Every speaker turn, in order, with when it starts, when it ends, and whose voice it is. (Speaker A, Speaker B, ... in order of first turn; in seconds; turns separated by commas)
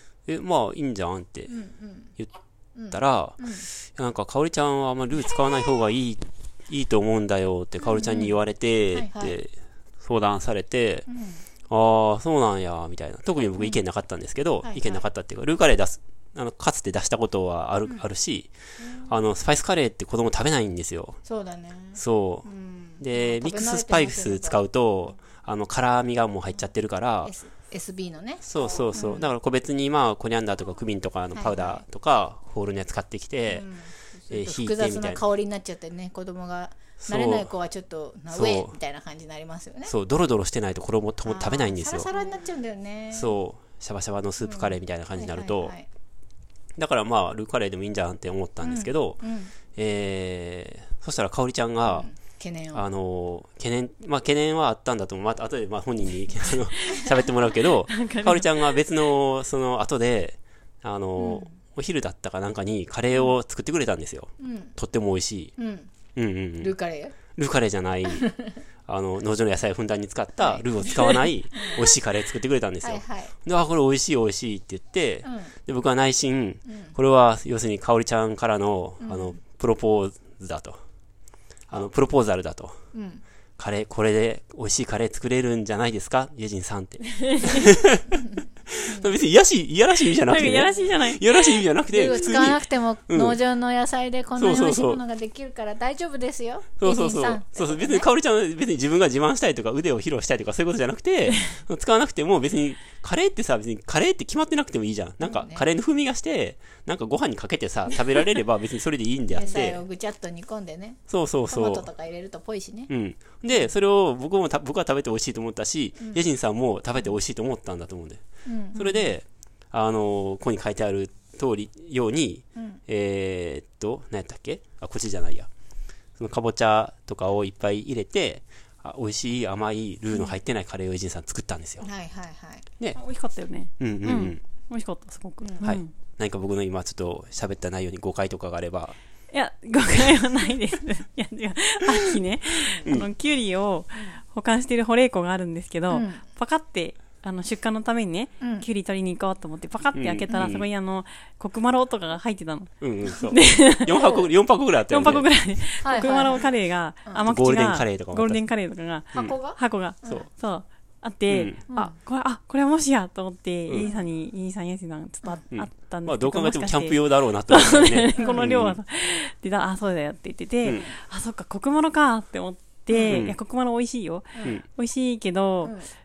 Speaker A: 0.3-1.6, Speaker B: 1.5-2.1, Speaker B: 2.8-3.7, Speaker A: 2.9-11.1, Speaker C: 7.9-8.3, Speaker B: 8.9-9.4, Speaker B: 11.1-11.4, Speaker A: 11.7-18.5, Speaker B: 14.6-15.0, Speaker B: 18.8-19.1, Speaker A: 19.0-21.2, Speaker B: 21.2-24.6, Speaker A: 21.9-22.5, Speaker A: 23.0-27.3, Speaker B: 27.2-29.3, Speaker A: 28.4-33.7, Speaker B: 31.4-31.8, Speaker B: 33.5-39.9, Speaker A: 34.3-35.2, Speaker A: 37.0-37.5, Speaker A: 38.3-38.8, Speaker A: 39.9-42.1, Speaker B: 41.2-43.4, Speaker A: 43.1-45.7, Speaker B: 44.4-45.9, Speaker A: 46.8-52.1, Speaker B: 48.6-49.5, Speaker B: 51.9-52.9, Speaker A: 52.7-65.5, Speaker C: 57.7-58.8, Speaker B: 61.2-61.5, Speaker B: 64.4-64.8, Speaker B: 65.6-65.9, Speaker A: 66.2-66.8, Speaker B: 66.6-67.2, Speaker A: 67.3-68.3, Speaker B: 68.1-68.5, Speaker A: 68.9-80.8, Speaker B: 70.4-72.0, Speaker B: 72.8-73.3, Speaker B: 75.2-75.5, Speaker B: 76.7-77.0, Speaker B: 79.0-79.4, Speaker A: 81.7-82.8, Speaker B: 82.9-83.2, Speaker A: 83.6-93.4, Speaker C: 87.1-87.7, Speaker B: 88.9-89.2, Speaker C: 90.1-91.7, Speaker B: 91.9-98.1, Speaker A: 94.4-95.0, Speaker A: 96.8-109.8, Speaker B: 105.2-105.7, Speaker B: 109.4-112.9, Speaker A: 111.1-111.9, Speaker A: 112.9-125.5, Speaker B: 116.0-116.3, Speaker B: 118.5-119.1, Speaker B: 122.6-122.8, Speaker A: 126.2-131.9, Speaker B: 131.8-132.7, Speaker C: 132.9-135.9, Speaker A: 133.8-134.4, Speaker B: 135.4-135.8, Speaker A: 135.6-139.0, Speaker C: 139.3-154.0, Speaker B: 142.7-143.0, Speaker A: 142.8-143.1, Speaker B: 143.9-144.2, Speaker B: 145.9-146.2, Speaker B: 148.4-148.7, Speaker A: 149.9-150.7, Speaker A: 152.8-155.3, Speaker B: 153.9-154.3, Speaker C: 154.9-175.8, Speaker B: 155.8-156.4, Speaker A: 157.2-158.4, Speaker B: 159.1-160.3, Speaker A: 161.3-161.6, Speaker B: 161.7-162.0, Speaker B: 163.8-164.1, Speaker A: 165.5-168.8, Speaker B: 168.2-168.5, Speaker A: 170.6-170.9, Speaker B: 172.9-173.2, Speaker A: 173.1-173.4, Speaker B: 175.6-175.9